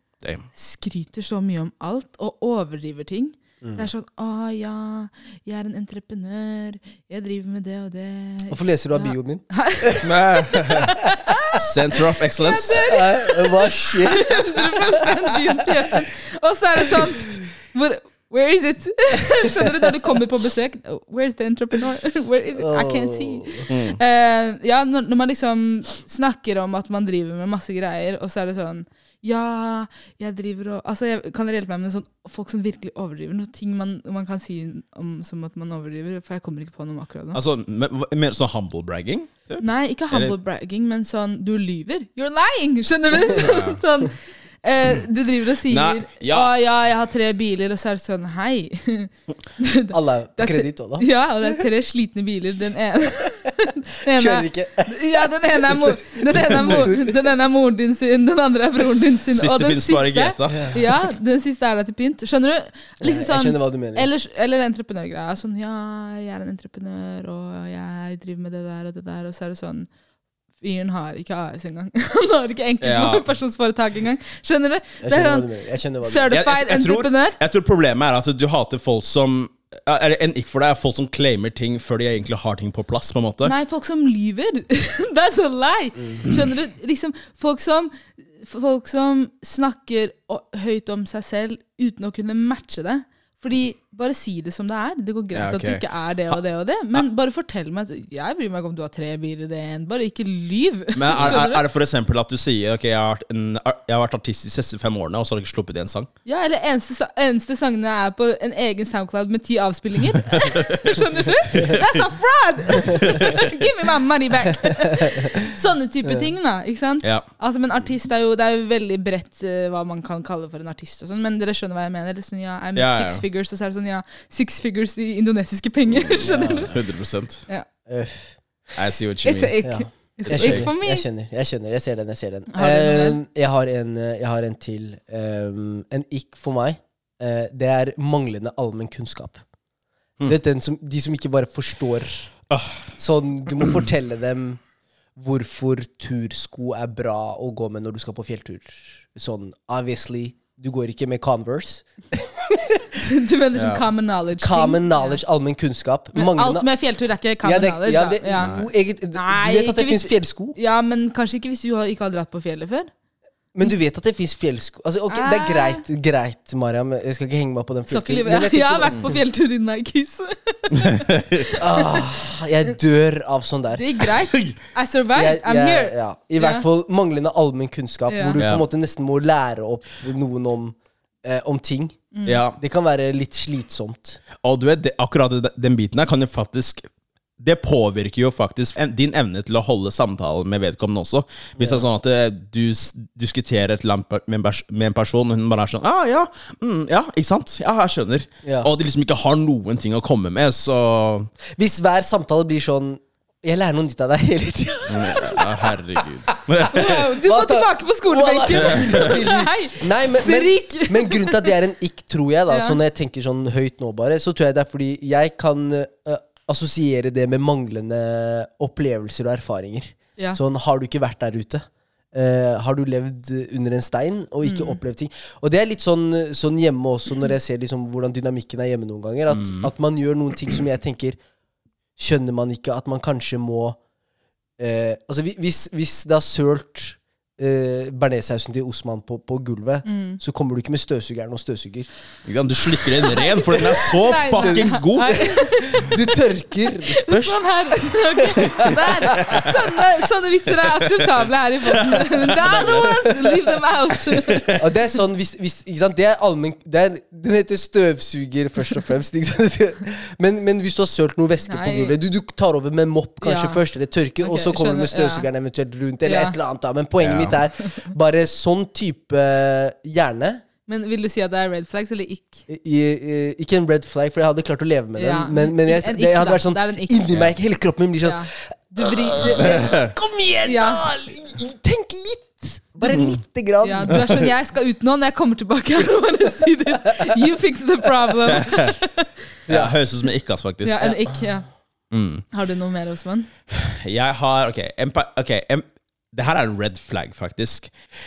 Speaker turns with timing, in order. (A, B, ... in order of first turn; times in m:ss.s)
0:00.5-0:11.6 A
0:03.6-0:03.9 B
0:08.5-0:10.1 B
0:10.0-0:11.0 C
0:11.5-0:13.0 C
0:12.4-0:37.4 A
0:12.8-0:15.1 B
0:22.6-0:23.6 B
0:23.7-0:24.0 C
0:37.3-0:40.4 C
0:39.6-1:09.9 A
0:43.2-0:43.8 C
0:45.7-0:46.5 C
0:49.9-0:51.6 B
0:54.1-0:57.2 B
0:56.6-0:56.9 C
0:59.3-1:00.7 C
1:00.5-1:00.8 B
1:03.0-1:04.1 B
1:10.6-1:15.5 A
1:12.8-1:13.3 C
1:15.0-1:16.3 B
1:16.0-1:17.4 A
1:16.3-1:23.5 C
1:23.4-1:41.6 A
1:35.3-1:36.4 C
1:40.9-1:46.1 C
1:46.2-2:06.8 A
1:50.4-1:50.9 C
1:52.8-1:53.4 C
2:02.8-2:03.2 C
2:06.1-2:06.7 B
2:06.6-2:07.4 C
2:07.9-2:08.4 B
2:08.7-2:09.6 C
2:09.2-2:11.0 A
2:09.6-2:19.4 B
2:10.2-2:10.7 C
2:12.5-2:13.2 A
2:20.2-2:22.3 B
2:22.5-2:22.8 C
2:23.0-2:24.6 B
2:25.2-2:32.8 B
2:32.9-2:35.2 A
2:33.5-2:33.8 C
2:34.4-2:36.7 B
2:36.1-2:38.5 A
2:37.4-2:40.6 B
2:38.4-2:38.7 C
2:39.1-2:42.9 A
2:43.5-2:49.2 B
2:45.1-2:45.8 A
2:47.9-2:52.1 A
2:50.8-2:51.2 C
2:51.6-2:53.9 B
2:53.7-2:56.6 A
2:55.1-3:04.2 B
2:58.1-2:58.4 A
2:58.4-2:58.6 C
3:02.1-3:02.5 A
3:02.2-3:02.6 C
3:04.4-3:06.8 C
3:07.4-3:21.3 C
3:11.6-3:11.9 B
3:18.4-3:18.7 B
3:21.6-3:51.2 B
3:24.9-3:27.0 C
3:26.7-3:31.5 A
3:28.7-3:29.0 C
3:32.5-3:32.8 A
3:44.4-3:44.8 A
3:49.3-3:49.7 C
3:52.0-3:53.8 B
3:54.6-4:01.9 B
3:59.8-4:00.2 A
4:02.2-4:05.3 C
4:03.0-4:06.0 A
4:04.3-4:08.8 B
4:07.0-4:14.4 A
4:09.1-4:09.5 C
4:10.9-4:13.1 C
4:12.6-4:12.9 B
4:14.1-4:14.7 C
4:14.6-4:30.4 B
4:21.4-4:22.0 A
4:23.2-4:23.6 A
4:24.2-4:25.3 A
4:26.0-4:26.3 A
4:27.0-4:27.4 C
4:30.7-4:32.4 A
4:32.5-4:38.3 B
4:35.0-4:37.0 A
4:38.0-4:39.7 A
4:38.8-4:44.1 B
4:39.4-4:39.9 C
4:40.4-4:40.8 A
4:42.8-4:43.2 C
4:43.6-4:49.1 A
4:43.9-4:44.3 C
4:48.3-4:48.8 C
4:49.5-4:49.8 B
4:49.5-4:50.9 C
4:50.6-4:51.5 A
4:50.8-4:51.1 B
4:51.9-4:52.2 C
4:52.3-4:53.3 A
4:53.5-4:57.7 C